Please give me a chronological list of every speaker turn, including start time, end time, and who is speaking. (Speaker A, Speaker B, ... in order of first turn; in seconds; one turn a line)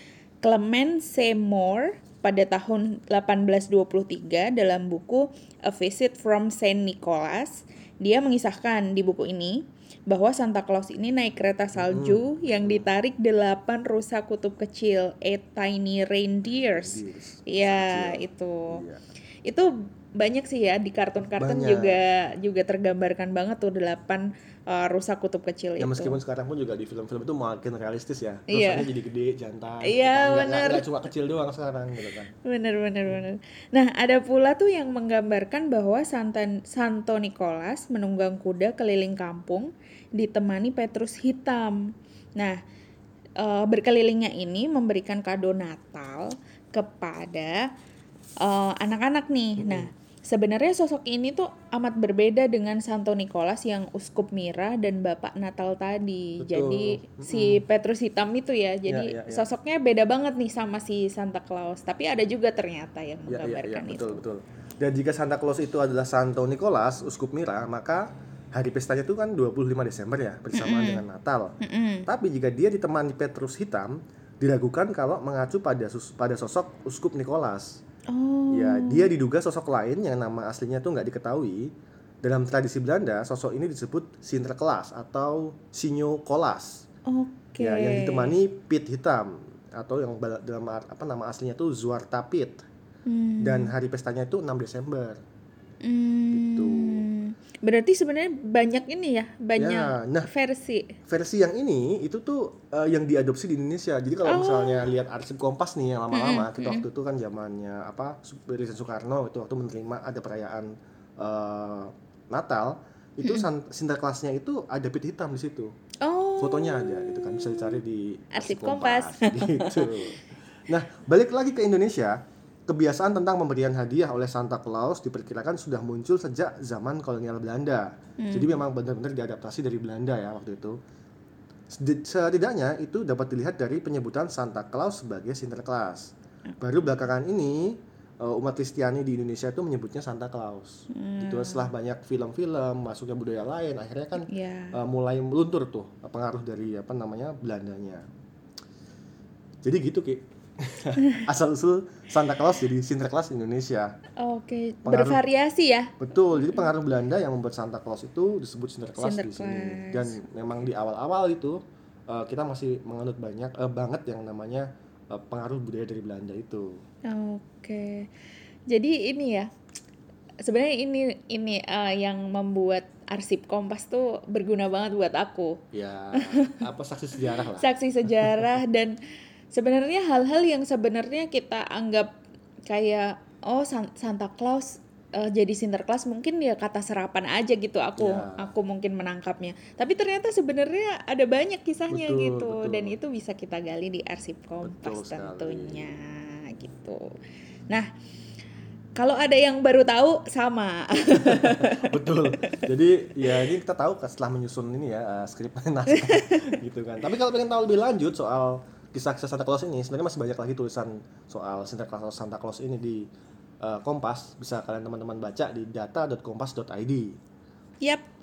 Speaker A: 0.4-18.8
Speaker B: 11.7-12.8
Speaker B: 16.7-19.0
Speaker A: 19.4-26.2
Speaker B: 21.4-22.0
Speaker B: 25.8-32.3
Speaker A: 28.5-28.9
Speaker A: 29.8-30.9
Speaker A: 32.4-41.8
Speaker A: 43.4-47.6
Speaker A: 48.4-64.2
Speaker B: 49.6-49.9
Speaker B: 56.4-57.6
Speaker B: 58.9-59.4
Speaker B: 63.3-71.5
Speaker A: 70.5-71.0
Speaker A: 71.6-72.1
Speaker B: 72.1-77.8
Speaker A: 78.1-79.1
Speaker B: 78.5-81.7
Speaker B: 82.2-86.8
Speaker A: 87.1-88.3
Speaker B: 87.6-92.6
Speaker A: 93.0-93.7
Speaker B: 93.4-95.2
Speaker A: 95.8-100.9
Speaker B: 96.3-97.0
Speaker B: 99.6-100.3
Speaker B: 101.1-115.7
Speaker A: 104.2-104.8
Speaker A: 106.1-106.8
Speaker A: 113.2-113.5
Speaker A: 116.0-117.8
Speaker B: 116.4-130.8
Speaker A: 118.3-120.1
Speaker A: 128.2-128.6
Speaker B: 131.7-148.0
Speaker A: 140.9-141.7
Speaker A: 144.2-144.8
Speaker B: 149.6-153.9
Speaker A: 154.2-156.7
Speaker B: 154.8-155.2
Speaker B: 156.0-161.6
Speaker A: 158.9-160.2
Speaker B: 162.1-166.8
Speaker A: 167.1-168.1
Speaker A: 168.7-169.5
Speaker A: 170.4-175.6
Speaker B: 175.7-177.7
Speaker A: 176.1-176.7
Speaker A: 177.3-178.9
Speaker A: 179.5-182.1
Speaker A: 182.7-197.1
Speaker B: 188.0-188.5
Speaker B: 191.9-192.9
Speaker B: 194.6-195.9
Speaker A: 198.9-202.6
Speaker B: 201.1-213.1
Speaker A: 205.9-206.5
Speaker B: 213.6-217.2